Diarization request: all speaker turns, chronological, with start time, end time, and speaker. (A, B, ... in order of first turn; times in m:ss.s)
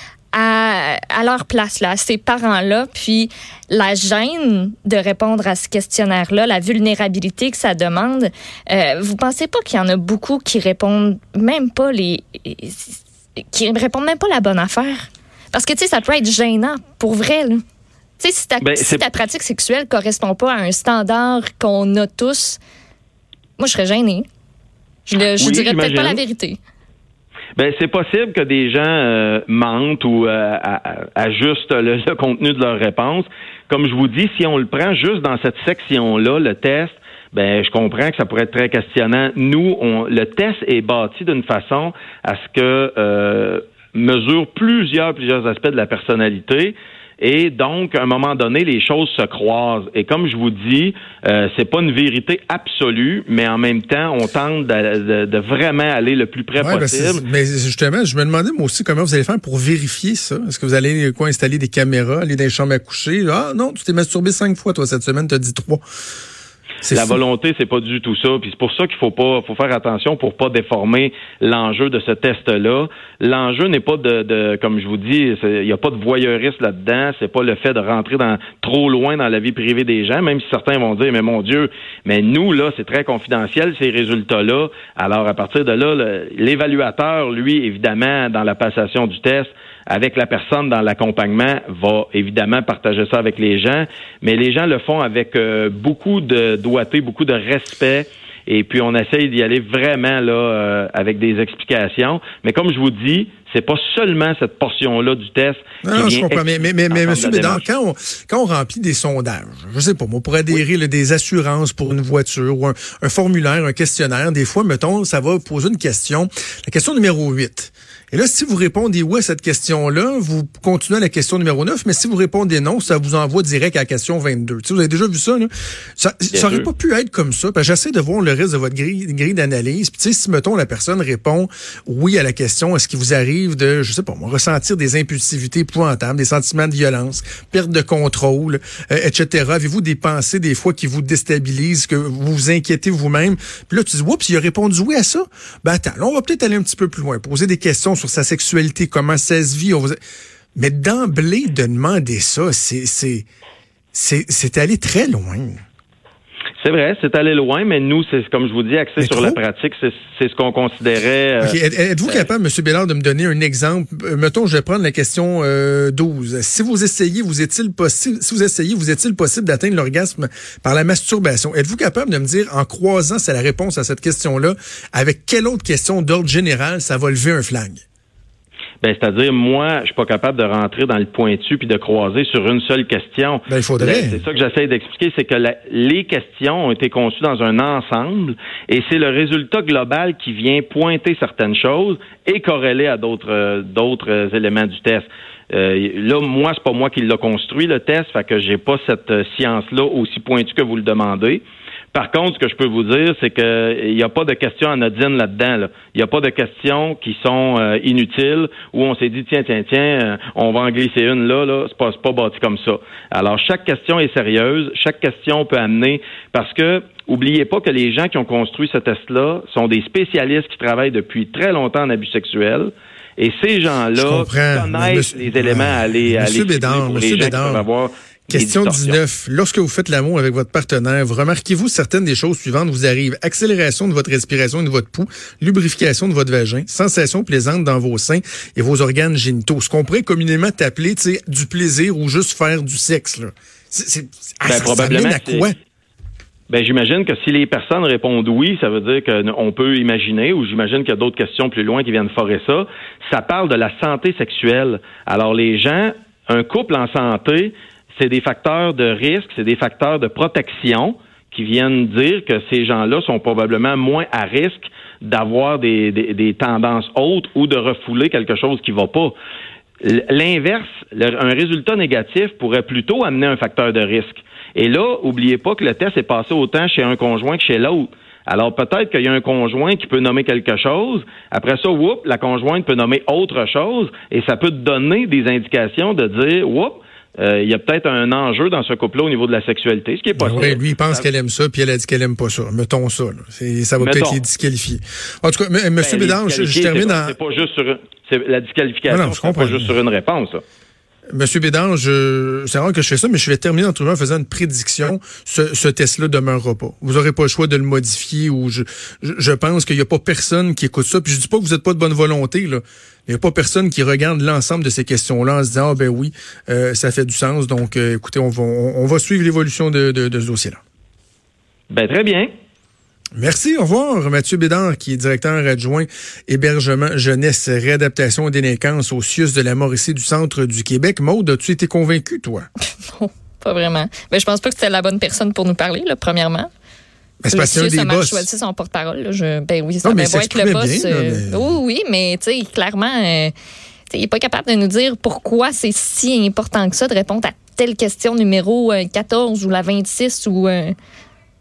0:00.3-0:12.9 A
0:13.5-0:17.6 A
0:18.2-0:22.6 A
0:18.6-0:19.2 B
0:23.6-0:24.2 A
0:25.1-0:26.6 A
0:25.4-0:26.2 B
0:27.6-0:57.2 B
0:56.6-1:05.8 C
1:06.8-1:07.2 C
1:06.9-1:47.7 B
1:45.8-2:30.0 C
2:06.3-2:06.7 B
2:30.6-2:33.3 C
2:33.9-2:35.6 C
2:36.6-2:42.3 B
2:39.0-2:39.4 C
2:41.4-2:57.8 C
2:58.8-3:21.4 B
3:03.5-3:04.2 C
3:21.9-3:49.0 B
3:44.0-3:47.6 C
3:48.3-4:05.5 C
4:04.4-4:05.5 B
4:06.5-4:29.1 B
4:29.8-4:51.1 B
4:50.2-4:57.2 C
4:53.8-4:54.2 B
4:55.8-5:00.4 B
4:58.9-4:59.7 C
5:01.1-5:20.6 C
5:21.7-5:22.3 B
5:23.2-5:32.5 C
5:32.9-5:36.5 A
5:37.2-5:38.3 C
5:37.3-5:43.3 A
5:39.8-5:41.6 C
5:43.9-5:50.8 A